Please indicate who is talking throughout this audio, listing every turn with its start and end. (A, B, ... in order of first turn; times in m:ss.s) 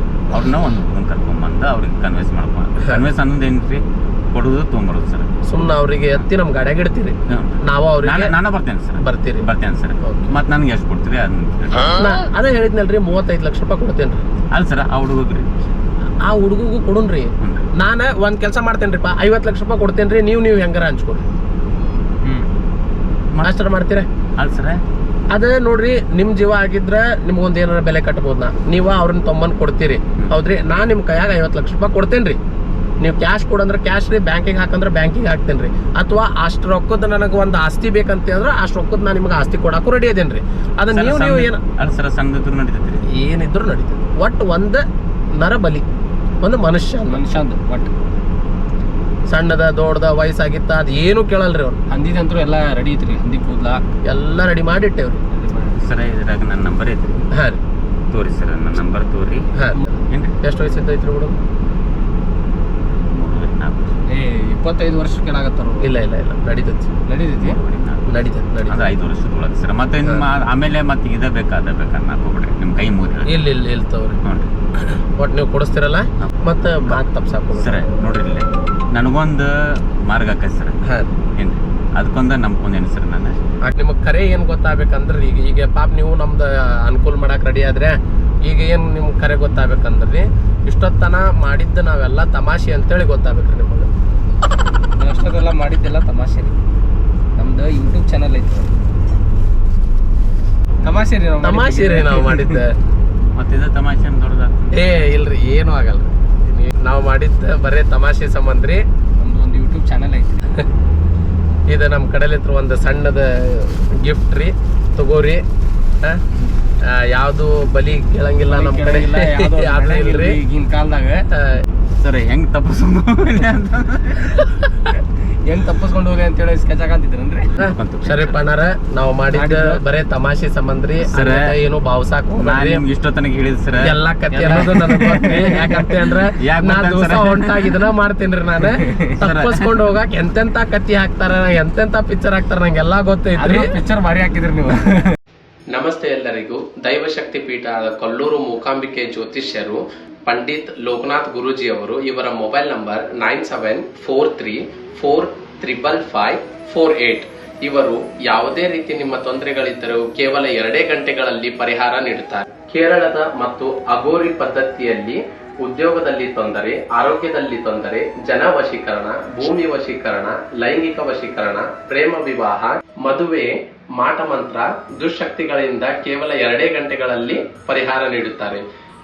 0:00.3-0:05.3 A
0:05.5-0:08.3 B
0:07.3-0:12.0 A
0:09.0-0:09.5 B
0:10.0-0:10.3 B
0:11.9-0:14.2 B
0:14.5-0:15.5 A
0:16.2-0:21.2 B
0:17.4-0:17.7 A
0:23.4-0:24.1 B
0:24.4-0:24.8 A
0:25.3-0:32.4 B
0:33.0-0:41.6 B
0:40.9-0:43.1 A
0:43.1-0:44.8 B
0:45.4-0:45.8 B
0:46.4-0:47.2 B
0:47.1-0:47.9 C
0:49.3-0:51.8 B
0:51.9-0:53.8 C
0:54.1-0:55.2 B
0:55.3-0:55.8 C
0:55.8-0:57.3 A
0:57.3-0:57.6 B
0:58.1-0:59.5 A
0:59.6-0:59.8 B
1:00.1-1:00.4 A
1:00.4-1:01.4 B
1:02.9-1:04.0 A
1:04.1-1:05.9 C
1:05.8-1:06.9 B
1:07.1-1:07.6 C
1:07.4-1:13.3 A
1:08.1-1:08.8 B
1:13.3-1:14.2 B
1:14.2-1:14.5 A
1:14.9-1:17.9 B
1:17.6-1:20.8 A
1:21.4-1:23.4 A
1:23.7-1:33.9 B
1:35.0-1:36.6 C
1:37.4-1:38.7 C
1:40.8-1:42.6 C
1:41.4-1:42.8 B
1:43.3-1:44.8 A
1:44.7-1:48.8 B
1:49.2-1:50.5 C
1:51.7-1:55.4 B
1:56.9-2:00.4 B
1:58.5-2:01.2 C
2:01.3-2:01.6 B
2:02.0-2:04.5 A
2:05.4-2:07.5 C
2:07.6-2:08.4 A
2:07.6-2:12.8 B
2:09.3-2:09.8 C
2:11.0-2:11.6 A
2:12.4-2:17.8 A
2:13.8-2:23.8 B
2:14.3-2:15.4 C
2:18.8-2:19.1 C
2:19.2-2:19.8 A
2:23.4-2:25.1 C
2:25.7-2:58.6 B